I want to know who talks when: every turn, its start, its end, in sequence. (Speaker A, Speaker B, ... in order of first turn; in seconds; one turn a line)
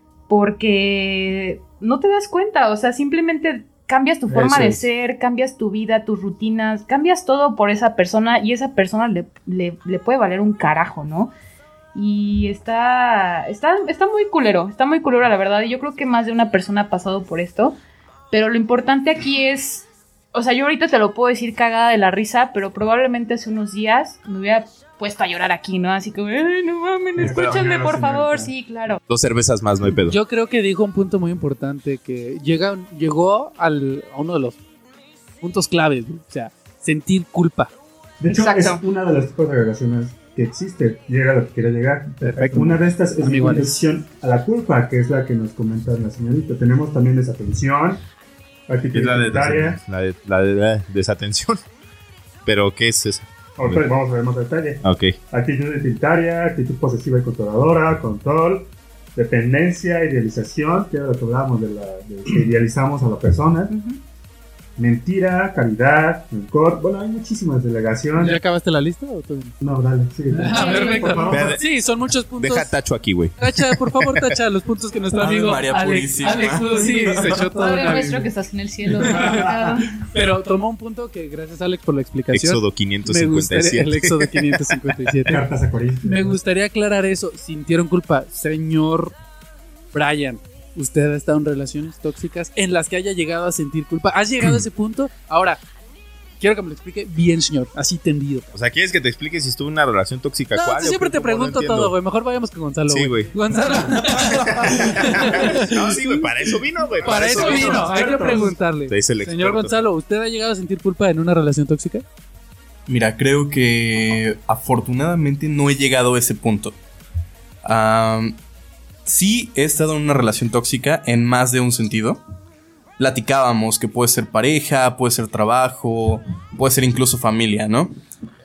Speaker A: 0.3-11.3
Speaker B: 4.3-4.8
Speaker A: 11.9-17.8
Speaker A: 18.3-29.0
Speaker C: 27.2-28.5
Speaker D: 27.2-27.6
Speaker D: 29.1-30.2
Speaker B: 30.1-34.6
Speaker B: 35.4-37.7
Speaker C: 38.2-48.0
Speaker A: 38.3-38.8
Speaker B: 42.2-43.8
Speaker C: 48.7-49.8
Speaker D: 48.9-51.6
Speaker D: 52.5-53.9
Speaker C: 53.6-63.7
Speaker D: 54.8-55.2
Speaker A: 63.7-64.0
Speaker C: 64.8-68.4
Speaker B: 68.2-69.6
Speaker C: 69.6-71.6
Speaker B: 70.3-72.8
Speaker A: 70.5-71.5
Speaker D: 71.3-71.7
Speaker D: 72.3-74.4
Speaker B: 73.4-78.3
Speaker E: 75.2-77.5
Speaker A: 77.4-80.0
Speaker B: 79.0-85.5
Speaker C: 79.0-79.8
Speaker D: 82.3-85.3
Speaker C: 85.3-86.3
Speaker B: 86.0-89.2
Speaker B: 89.9-95.6
Speaker B: 96.4-98.5
Speaker D: 98.5-102.0
Speaker B: 100.5-106.3
Speaker D: 102.9-103.3
Speaker D: 104.0-108.3
Speaker B: 107.0-112.0
Speaker C: 107.1-108.5
Speaker D: 108.9-109.7
Speaker E: 112.9-116.8
Speaker E: 117.6-118.4
Speaker E: 119.0-122.2
Speaker E: 123.0-127.9